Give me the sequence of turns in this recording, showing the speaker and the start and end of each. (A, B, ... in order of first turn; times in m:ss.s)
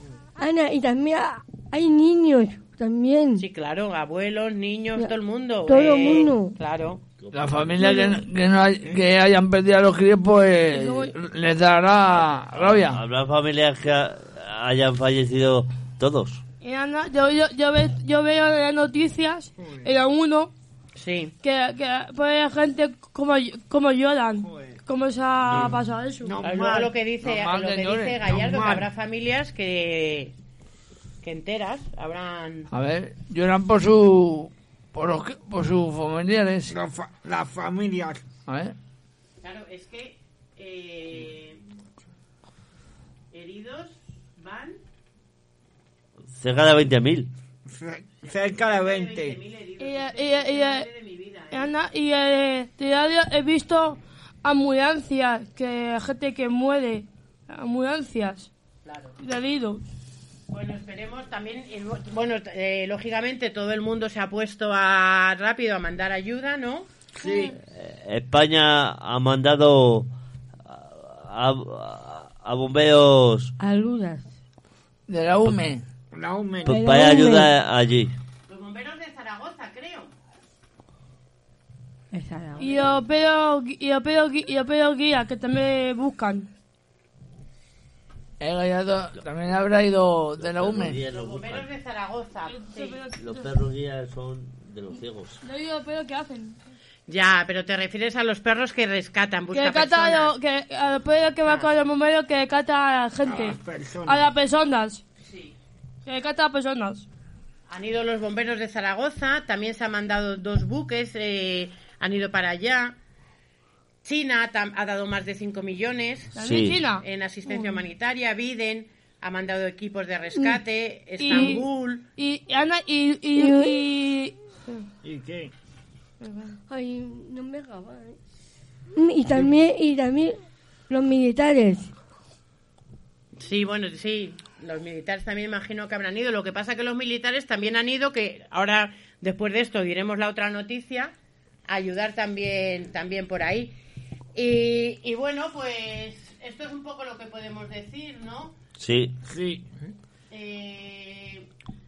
0:00.4-0:03.4 A
0:03.4-0:07.0 B
0:05.6-0:06.6 A
0:07.2-0:07.8 C
0:07.3-0:13.0 D
0:07.8-0:08.1 E
0:10.7-0:11.1 E
0:12.5-0:16.4 C
0:16.6-0:20.5 E
0:19.6-0:19.9 F
0:21.0-0:21.3 B
0:21.4-0:26.4 E
0:24.4-0:24.8 F
0:25.5-0:25.7 C
0:26.2-0:26.9 F
0:26.4-0:30.3 B
0:27.2-0:28.2 D
0:28.2-0:28.9 F
0:31.2-0:32.7 B
0:32.7-0:36.7 D
0:36.7-0:38.2 F
0:38.5-0:38.7 D
0:39.4-0:41.6 B
0:43.3-0:44.8 B
0:46.4-0:47.3 C
0:47.7-0:49.4 F
0:48.5-0:51.7 B
0:49.8-0:50.9 E
0:51.5-0:58.5 E
0:58.8-0:59.2 B
0:59.2-0:59.8 E
1:00.5-1:06.9 B
1:07.2-1:07.5 F
1:07.2-1:07.5 E
1:07.8-1:10.1 C
1:10.7-1:13.5 C
1:13.6-1:14.3 A
1:15.1-1:15.8 D
1:16.1-1:16.8 F
1:16.6-1:18.1 C
1:16.7-1:17.5 A
1:18.5-1:20.1 B
1:22.1-1:22.8 A
1:22.6-1:26.5 E
1:28.4-1:31.0 D
1:30.4-1:31.7 C
1:31.1-1:33.0 B
1:32.4-1:33.5 E
1:33.2-1:35.4 C
1:35.4-1:36.6 E
1:37.1-1:40.3 B
1:39.5-1:45.0 E
1:43.2-1:44.3 F
1:45.2-1:45.5 B
1:46.0-1:47.0 E
1:47.7-1:53.0 B
1:54.0-1:56.3 B
1:56.4-1:56.8 C
1:56.4-1:57.8 E
1:57.0-2:02.1 B
2:01.2-2:01.6 E
2:02.2-2:04.8 E
2:03.4-2:03.8 A
2:05.0-2:05.5 F
2:06.2-2:06.6 E
2:06.7-2:08.2 A
2:08.9-2:10.4 A
2:10.9-2:11.9 A
2:13.4-2:21.1 B
2:21.7-2:23.7 B
2:24.3-2:28.5 B
2:28.8-2:29.1 C
2:29.3-2:29.6 F
2:30.3-2:31.4 B